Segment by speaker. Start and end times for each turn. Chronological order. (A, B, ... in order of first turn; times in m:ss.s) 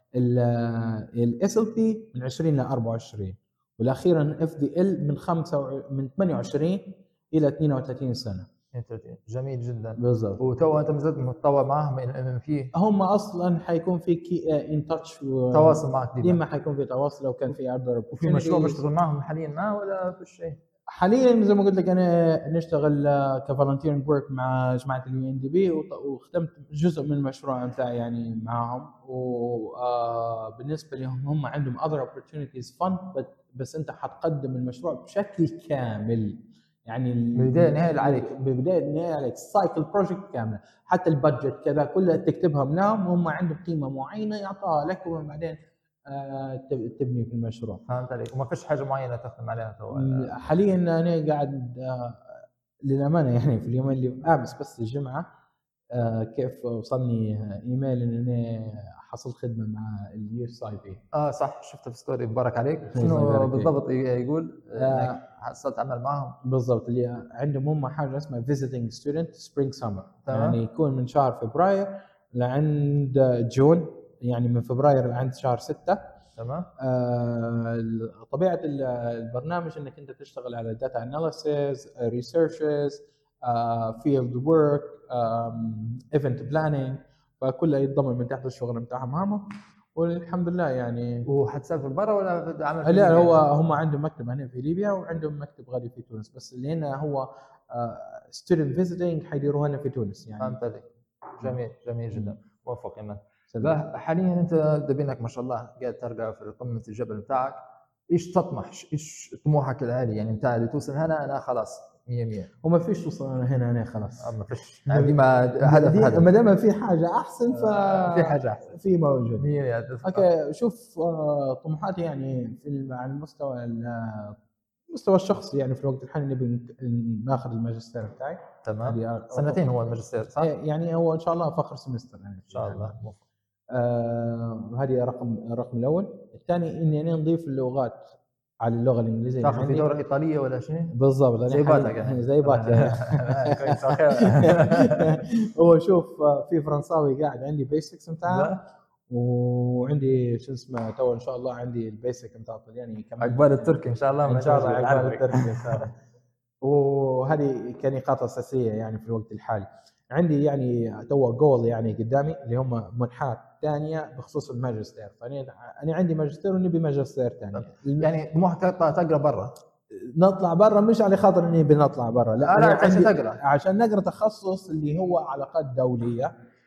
0:00.2-0:08.5 A
0:08.7-0:12.7 B
0:10.0-0:10.4 A
0:12.7-0:18.8 A
0:15.5-0:16.4 B
0:18.1-0:20.6 B
0:20.9-0:47.8 A
0:37.4-0:38.3 B
0:47.9-0:50.3 B
0:49.9-0:55.3 A
0:55.9-1:01.0 A
1:01.1-1:06.4 B
1:02.9-1:03.7 A
1:04.8-1:05.2 A
1:06.4-1:16.0 A
1:10.3-1:10.6 B
1:16.4-1:16.7 B
1:16.8-1:31.3 A
1:31.2-1:33.5 B
1:32.8-1:40.6 A
1:40.4-1:52.5 B
1:43.5-1:43.8 A
1:52.6-1:54.3 A
1:54.2-1:56.3 B
1:54.9-1:59.5 A
1:57.5-1:58.7 B
1:59.4-2:00.3 B
2:00.0-2:04.4 A
2:04.9-2:09.6 A
2:08.6-2:10.5 B
2:10.4-2:13.0 A
2:12.5-2:13.2 B
2:13.7-2:20.0 A
2:19.4-2:21.0 B
2:20.9-2:28.6 A
2:21.5-2:25.1 B
2:28.3-2:28.6 B
2:29.1-2:33.7 A
2:33.2-2:35.9 B
2:34.3-2:35.9 A
2:36.6-2:48.1 A
2:47.6-2:49.5 B
2:49.9-2:56.3 A
2:52.4-2:53.4 B